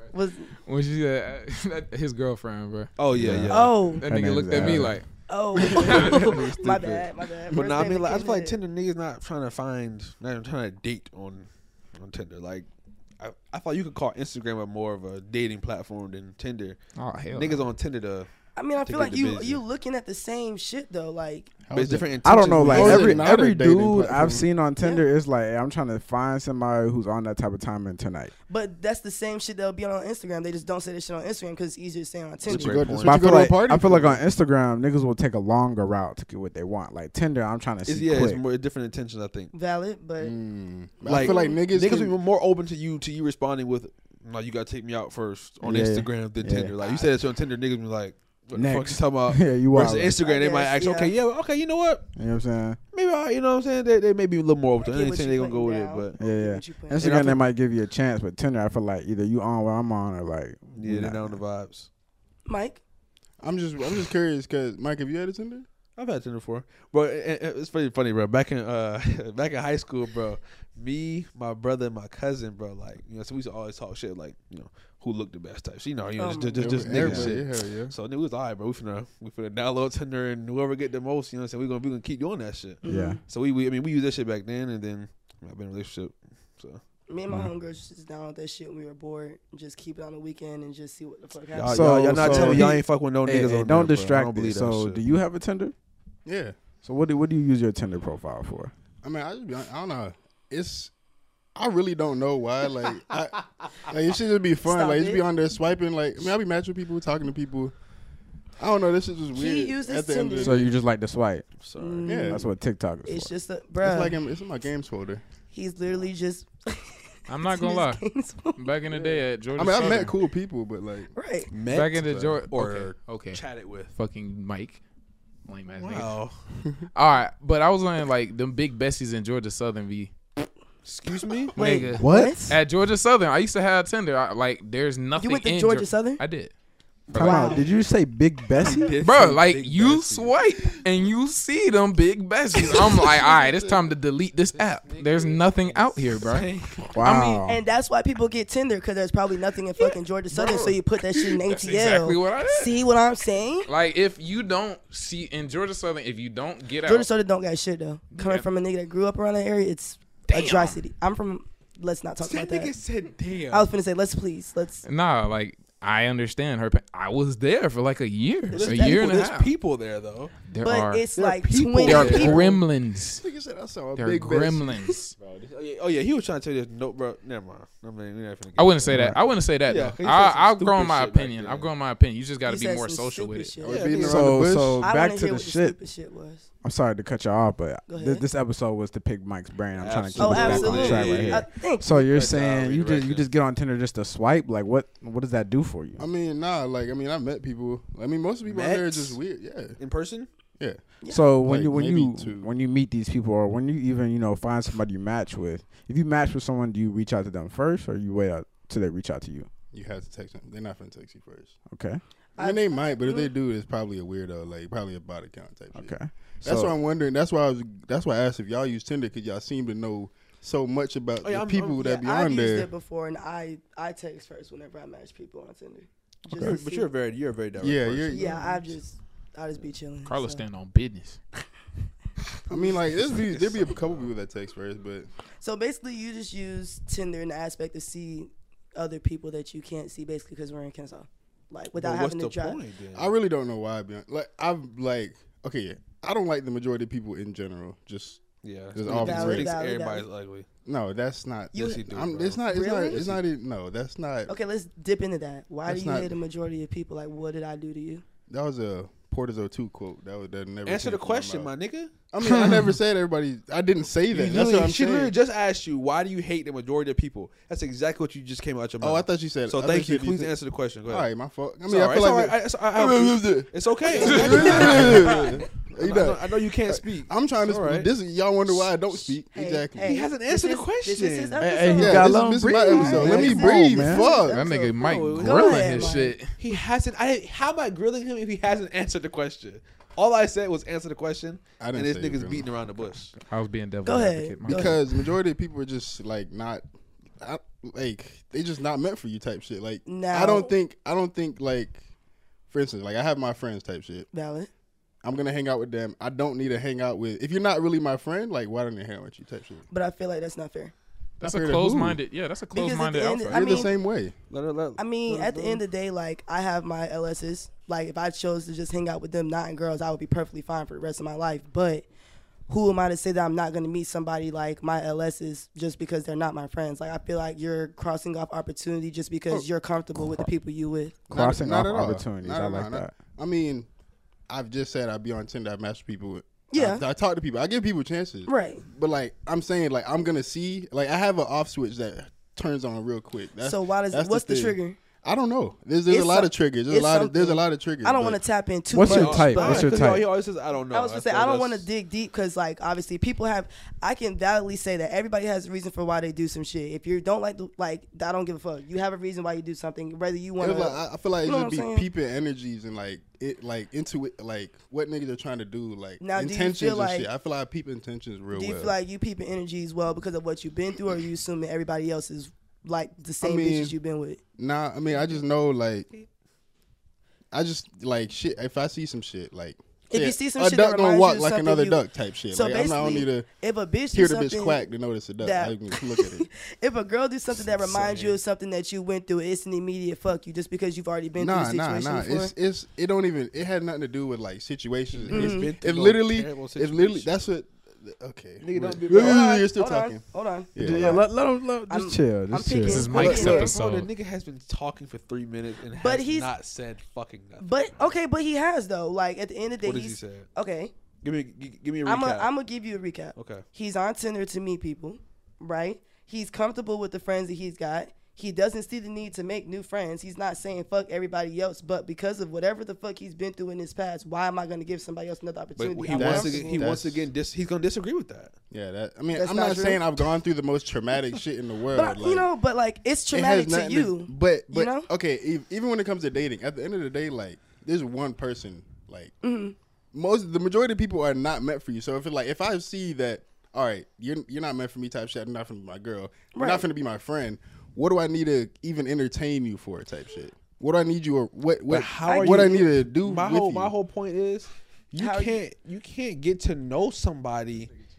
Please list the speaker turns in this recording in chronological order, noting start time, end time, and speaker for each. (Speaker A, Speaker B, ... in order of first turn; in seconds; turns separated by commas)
Speaker A: 0.1-0.5, Speaker B: 0.5-2.9, Speaker C: 3.0-3.8, Speaker D: 3.1-5.0, Speaker A: 3.5-4.1, Speaker B: 4.0-6.4, Speaker A: 5.3-8.6, Speaker D: 5.8-6.8, Speaker C: 7.5-12.7, Speaker C: 13.2-16.8, Speaker B: 17.0-17.7, Speaker C: 17.3-18.3, Speaker A: 18.6-21.5, Speaker C: 18.8-19.6, Speaker E: 21.6-24.5, Speaker C: 21.7-23.3, Speaker D: 22.2-28.3, Speaker A: 28.5-32.8, Speaker C: 32.4-33.2, Speaker E: 32.5-34.2, Speaker D: 33.0-38.4, Speaker C: 37.9-39.5, Speaker A: 39.5-40.4, Speaker E: 40.2-42.2, Speaker C: 41.0-52.0, Speaker A: 41.1-41.6, Speaker D: 45.6-46.8, Speaker D: 48.5-50.2, Speaker A: 50.2-51.1, Speaker D: 52.1-52.8, Speaker C: 52.9-56.2, Speaker A: 54.8-57.2, Speaker D: 56.2-61.4, Speaker C: 57.0-57.4, Speaker C: 60.7-61.9, Speaker A: 62.5-62.8, Speaker E: 63.4-65.7, Speaker C: 66.0-86.8, Speaker A: 76.2-76.7, Speaker E: 76.6-78.0, Speaker D: 76.8-77.4, Speaker A: 82.8-83.2, Speaker D: 82.8-83.2, Speaker A: 87.1-92.7, Speaker C: 91.5-95.0, Speaker D: 91.7-95.7, Speaker E: 96.3-96.6, Speaker D: 96.8-98.7, Speaker E: 99.0-100.9, Speaker E: 101.6-107.7, Speaker A: 104.6-105.2, Speaker E: 108.6-110.7, Speaker A: 109.3-110.7, Speaker D: 110.4-111.5, Speaker C: 111.6-112.3, Speaker A: 111.8-112.5, Speaker E: 112.1-112.5, Speaker D: 112.3-113.3, Speaker A: 113.0-114.2, Speaker E: 113.8-115.2, Speaker A: 115.5-118.7, Speaker B: 117.3-118.0, Speaker B: 118.6-120.2, Speaker E: 118.9-121.1, Speaker A: 121.2-121.5, Speaker C: 121.5-123.9, Speaker B: 121.7-123.4, Speaker B: 123.9-124.8, Speaker B: 125.5-126.2, Speaker C: 125.8-126.4, Speaker B: 127.0-130.1, Speaker C: 130.8-131.6, Speaker A: 131.6-132.6, Speaker B: 131.6-136.5, Speaker D: 131.9-132.5, Speaker A: 135.2-136.2, Speaker D: 137.1-138.9, Speaker B: 137.1-137.5, Speaker A: 137.1-137.7, Speaker C: 138.6-140.8, Speaker B: 139.0-147.4, Speaker C: 142.6-143.8, Speaker C: 144.5-146.9, Speaker D: 146.9-147.6, Speaker A: 147.5-153.7, Speaker B: 150.3-152.8, Speaker B: 153.7-157.1, Speaker A: 156.8-162.7, Speaker B: 158.1-158.4, Speaker B: 160.3-160.8, Speaker C: 162.2-163.7, Speaker A: 163.5-164.8, Speaker B: 164.8-169.5, Speaker A: 168.5-169.3, Speaker C: 168.5-170.3, Speaker B: 170.4-171.1, Speaker A: 170.6-172.5, Speaker C: 171.2-172.6, Speaker B: 171.8-173.3, Speaker E: 173.2-174.9, Speaker B: 173.9-175.2, Speaker C: 175.3-179.0, Speaker B: 178.6-183.6, Speaker D: 178.9-179.2, Speaker C: 179.7-181.7, Speaker A: 182.4-183.9, Speaker E: 183.6-184.9, Speaker C: 183.7-184.3, Speaker D: 184.0-185.8, Speaker A: 184.8-186.5, Speaker D: 186.6-196.1, Speaker A: 187.9-188.3, Speaker C: 189.7-193.3, Speaker A: 190.2-192.1, Speaker E: 196.0-199.8, Speaker C: 198.4-199.2, Speaker C: 199.8-200.3, Speaker D: 201.1-209.5, Speaker E: 201.4-202.5, Speaker E: 209.7-211.6, Speaker D: 211.7-212.0, Speaker A: 212.4-213.3, Speaker E: 212.4-222.7, Speaker D: 215.7-216.8, Speaker C: 221.2-221.8, Speaker A: 221.8-226.9, Speaker C: 226.4-228.4, Speaker E: 227.6-228.8, Speaker A: 228.1-230.4, Speaker B: 230.1-231.2, Speaker E: 232.5-235.1, Speaker C: 232.7-234.1, Speaker A: 235.4-242.6, Speaker C: 241.8-243.1, Speaker E: 242.9-248.2, Speaker C: 248.4-250.5, Speaker E: 248.7-249.6, Speaker A: 248.9-250.1, Speaker E: 250.7-254.3, Speaker C: 251.5-252.4, Speaker A: 252.5-253.1, Speaker C: 252.9-253.2, Speaker A: 254.3-258.0, Speaker E: 255.7-256.2, Speaker E: 258.3-261.5, Speaker C: 260.6-261.9, Speaker E: 262.1-265.2, Speaker C: 264.1-271.1, Speaker E: 268.8-280.0, Speaker C: 271.7-277.9, Speaker B: 274.0-274.9, Speaker C: 278.5-278.8, Speaker A: 278.9-286.2, Speaker C: 279.9-281.4, Speaker D: 281.4-284.1, Speaker E: 281.7-284.4, Speaker B: 284.3-286.4, Speaker C: 284.8-293.1, Speaker E: 291.6-292.6, Speaker B: 293.1-294.8, Speaker A: 293.9-294.8, Speaker E: 294.4-296.6, Speaker E: 297.2-301.8, Speaker A: 299.9-300.5, Speaker E: 302.5-304.1, Speaker A: 304.1-304.5, Speaker E: 305.0-309.6, Speaker A: 309.7-310.7, Speaker E: 311.2-312.0, Speaker B: 311.2-313.7, Speaker A: 312.5-313.7, Speaker E: 313.3-314.1, Speaker C: 314.3-315.6, Speaker A: 314.8-321.9, Speaker A: 322.5-331.0, Speaker D: 331.1-333.0, Speaker E: 331.1-333.7, Speaker E: 334.3-348.2, Speaker A: 336.5-336.8, Speaker A: 338.3-338.6, Speaker A: 343.4-344.8, Speaker A: 345.9-349.9, Speaker D: 348.7-350.1, Speaker C: 348.8-351.7, Speaker A: 350.7-361.9, Speaker E: 360.4-368.8, Speaker A: 366.0-367.1, Speaker A: 368.3-374.2, Speaker E: 373.2-373.8, Speaker E: 374.4-375.9, Speaker C: 374.9-375.2, Speaker E: 377.3-383.3, Speaker A: 379.9-384.7, Speaker E: 383.9-386.3, Speaker A: 385.2-392.3, Speaker C: 387.6-388.2, Speaker E: 391.2-401.1, Speaker C: 394.9-397.3, Speaker A: 395.1-395.5, Speaker C: 398.4-399.5, Speaker A: 398.9-401.1, Speaker D: 400.6-403.2, Speaker A: 401.7-403.5, Speaker B: 402.6-403.9, Speaker C: 402.9-407.7, Speaker A: 405.8-406.3, Speaker A: 407.4-410.7, Speaker C: 409.6-410.3, Speaker C: 411.0-412.3, Speaker A: 411.9-426.7, Speaker C: 413.1-413.4, Speaker C: 425.6-428.3, Speaker E: 425.9-427.1, Speaker E: 428.5-432.3, Speaker A: 429.1-429.8, Speaker A: 431.7-434.9, Speaker E: 433.1-439.1, Speaker A: 439.2-439.6, Speaker E: 439.9-453.7, Speaker A: 446.3-446.7, Speaker C: 451.7-457.7, Speaker A: 452.0-452.7, Speaker A: 454.9-455.4